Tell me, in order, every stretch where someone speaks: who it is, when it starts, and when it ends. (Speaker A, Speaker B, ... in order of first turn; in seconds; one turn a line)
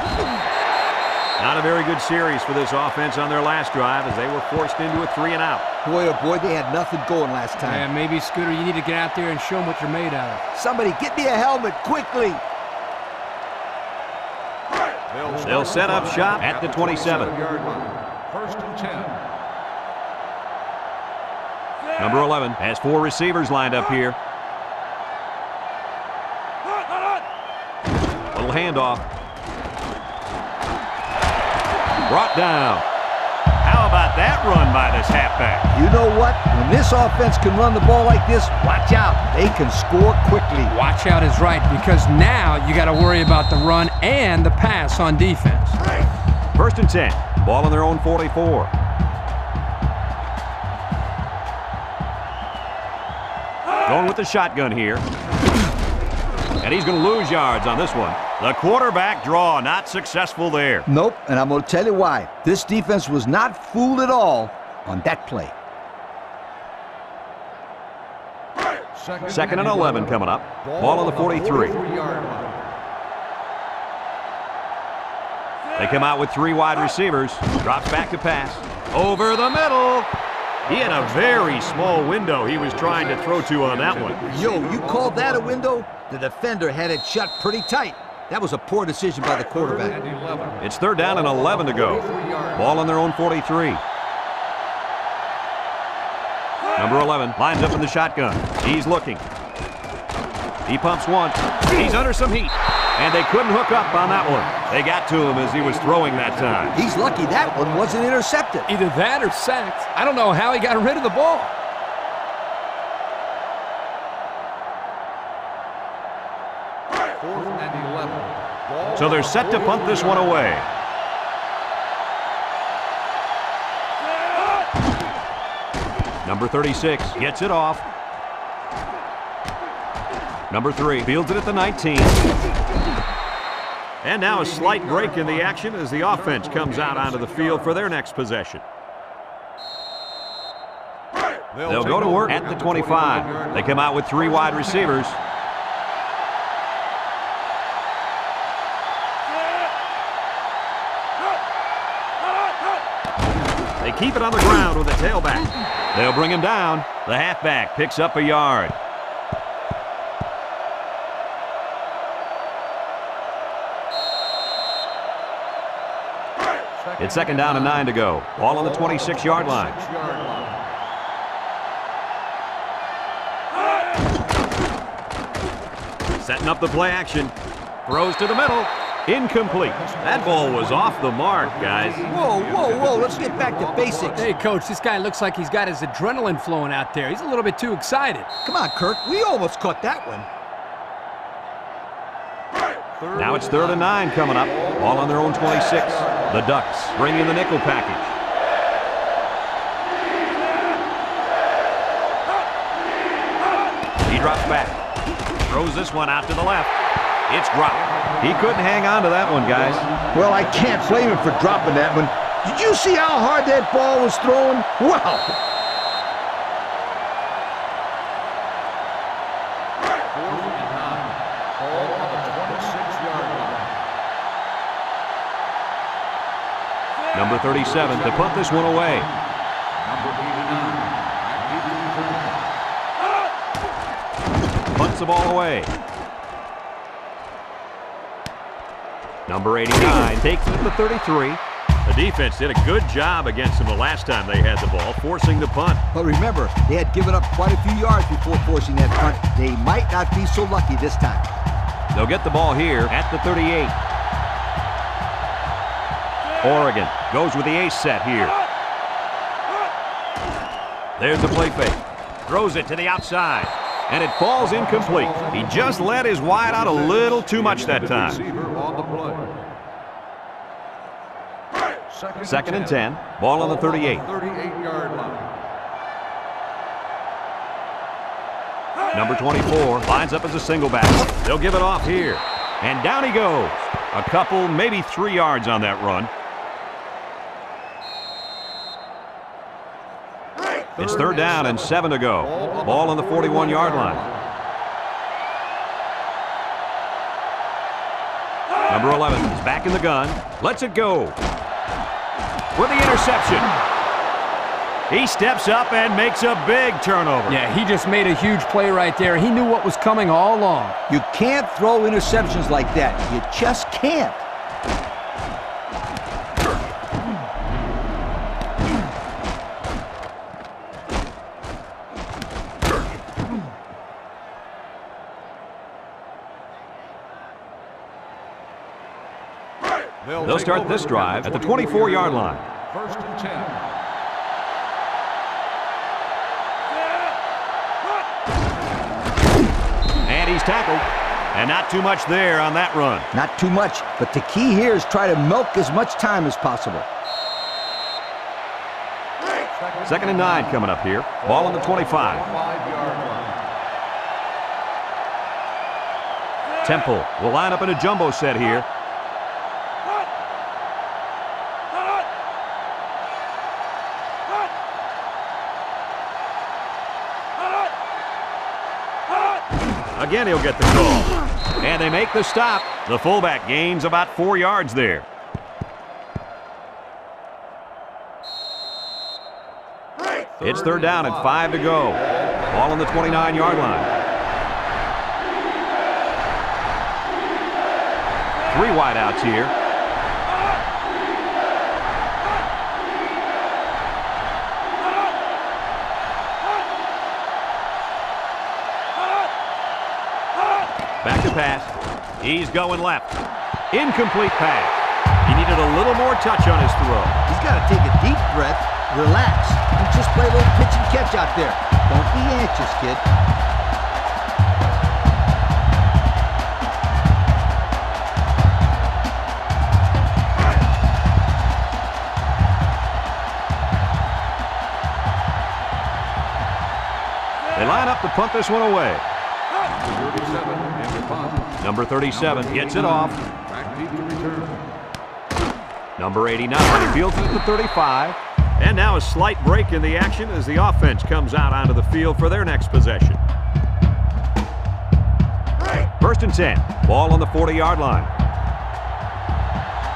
Speaker A: 1.4-5.6
Speaker B: 5.8-7.9
Speaker C: 7.6-10.4
Speaker B: 10.5-12.4
Speaker D: 15.1-19.2
Speaker A: 15.4-17.4
Speaker A: 22.0-24.2
Speaker A: 28.3-29.1
Speaker A: 32.1-32.8
Speaker A: 33.6-35.7
Speaker B: 35.7-40.7
Speaker C: 40.7-45.8
Speaker A: 46.5-48.7
Speaker A: 53.9-55.0
Speaker A: 56.6-60.9
Speaker B: 60.9-65.5
Speaker D: 69.0-72.6
Speaker A: 69.3-71.8
Speaker A: 75.8-80.1
Speaker A: 80.7-84.2
Speaker D: 80.7-81.8
Speaker D: 82.7-85.6
Speaker B: 84.3-90.0
Speaker D: 89.5-92.8
Speaker A: 90.6-93.8
Speaker A: 96.8-99.2
Speaker A: 100.7-106.8
Speaker D: 106.3-107.9
Speaker B: 106.7-108.7
Speaker C: 108.7-111.5
Speaker D: 117.2-120.5
Speaker A: 119.0-120.7
Speaker A: 126.2-127.8
Speaker A: 130.5-132.2
Speaker A: 134.0-138.6
Speaker D: 134.5-137.9
Speaker D: 141.5-145.0
Speaker A: 141.7-145.2
Speaker A: 153.8-158.8
Speaker D: 166.8-167.9
Speaker A: 167.0-169.8
Speaker D: 168.5-170.6
Speaker A: 176.2-177.3
Speaker A: 177.8-182.1
Speaker D: 179.4-184.3
Speaker B: 182.1-184.3
Speaker C: 184.1-188.3
Speaker B: 188.4-190.3
Speaker D: 193.0-193.9
Speaker A: 193.2-198.1
Speaker D: 194.5-196.3
Speaker A: 204.1-204.8
Speaker A: 205.5-206.7
Speaker A: 207.3-209.9
Speaker D: 207.9-208.6
Speaker D: 209.4-209.9
Speaker B: 210.1-215.4
Speaker D: 220.1-223.7
Speaker A: 227.1-229.1
Speaker D: 227.5-229.1
Speaker D: 229.7-232.5
Speaker A: 234.7-235.7
Speaker A: 239.3-245.8
Speaker B: 245.9-251.3
Speaker A: 251.9-253.7
Speaker A: 256.4-258.4
Speaker A: 261.0-268.2
Speaker D: 264.5-265.8
Speaker D: 266.4-269.4
Speaker D: 271.9-272.9
Speaker A: 272.2-274.1
Speaker D: 273.4-275.4
Speaker A: 278.9-286.1
Speaker D: 290.8-294.1
Speaker A: 290.8-294.1
Speaker A: 298.7-301.1
Speaker A: 302.6-303.5
Speaker A: 304.9-307.4
Speaker C: 307.3-310.8
Speaker B: 310.9-314.2
Speaker D: 330.0-333.7
Speaker A: 330.2-332.5
Speaker A: 340.1-343.1
Speaker B: 343.1-346.9
Speaker D: 349.5-350.6
Speaker A: 349.9-352.3
Speaker D: 351.2-353.4
Speaker A: 356.6-358.7
Speaker A: 369.9-375.1
Speaker D: 380.4-381.4
Speaker A: 380.4-383.9
Speaker D: 381.9-383.9
Speaker A: 388.5-389.5
Speaker A: 401.0-403.1
Speaker A: 403.7-407.2
Speaker B: 407.3-413.0
Speaker A: 427.6-429.0
Speaker D: 429.8-431.6
Speaker A: 431.6-433.2
Speaker D: 432.1-434.6
Speaker A: 436.0-443.2
Speaker A: 446.0-448.1